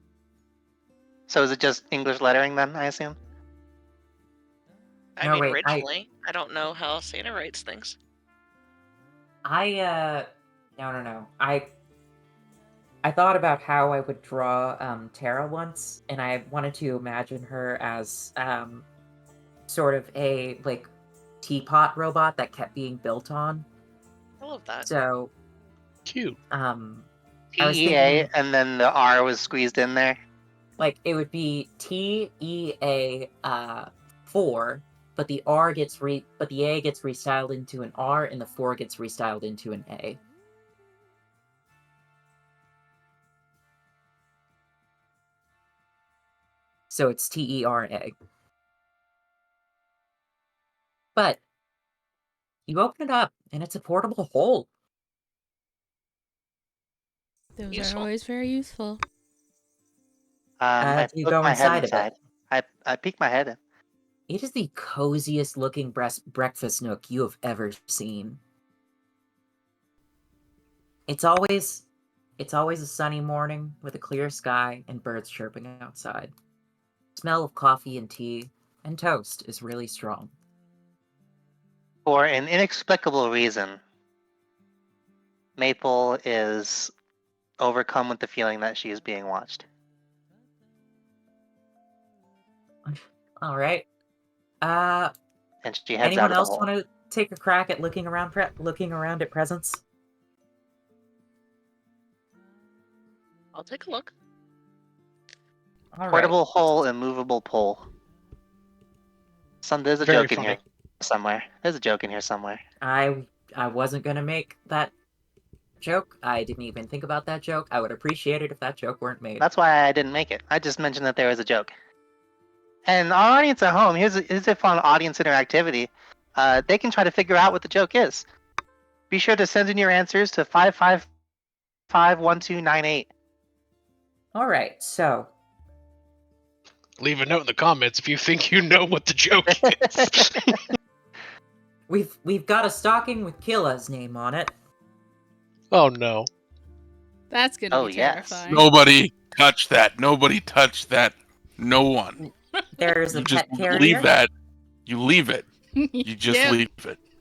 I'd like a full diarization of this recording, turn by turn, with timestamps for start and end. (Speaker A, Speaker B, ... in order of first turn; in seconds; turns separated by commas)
Speaker A: 1.3-3.2, Speaker B: 5.2-8.0, Speaker C: 5.2-5.8, Speaker C: 9.4-11.7, Speaker C: 13.0-18.9, Speaker C: 19.7-20.9, Speaker C: 21.4-23.7, Speaker B: 24.4-24.9, Speaker C: 24.8-25.3, Speaker D: 26.1-26.4, Speaker C: 26.5-27.1, Speaker A: 27.6-30.2, Speaker C: 27.6-28.3, Speaker C: 30.8-40.2, Speaker C: 46.9-48.1, Speaker C: 51.2-51.4, Speaker C: 52.7-54.7, Speaker E: 57.6-59.0, Speaker B: 57.7-58.1, Speaker A: 60.6-63.6, Speaker C: 60.8-62.1, Speaker C: 64.3-68.4, Speaker C: 71.1-71.8, Speaker C: 72.4-76.3, Speaker C: 77.2-80.3, Speaker A: 82.1-83.8, Speaker A: 85.6-86.9, Speaker A: 87.6-89.7, Speaker C: 92.9-93.9, Speaker C: 94.6-95.1, Speaker A: 95.6-96.7, Speaker C: 96.0-99.8, Speaker B: 103.5-104.1, Speaker C: 105.9-106.4, Speaker A: 106.1-107.9, Speaker A: 109.6-112.6, Speaker D: 110.0-110.6, Speaker C: 112.8-114.9, Speaker C: 115.8-119.5, Speaker A: 119.4-121.7, Speaker A: 122.9-128.2, Speaker A: 129.1-131.1, Speaker A: 131.9-133.1, Speaker C: 134.3-135.3, Speaker D: 137.0-140.6, Speaker C: 141.9-144.5, Speaker D: 145.7-146.3, Speaker E: 147.3-148.7, Speaker A: 147.7-148.4, Speaker F: 148.5-152.2, Speaker C: 152.2-154.1, Speaker F: 153.1-154.3, Speaker F: 154.9-155.5, Speaker E: 155.8-156.6, Speaker F: 156.0-157.0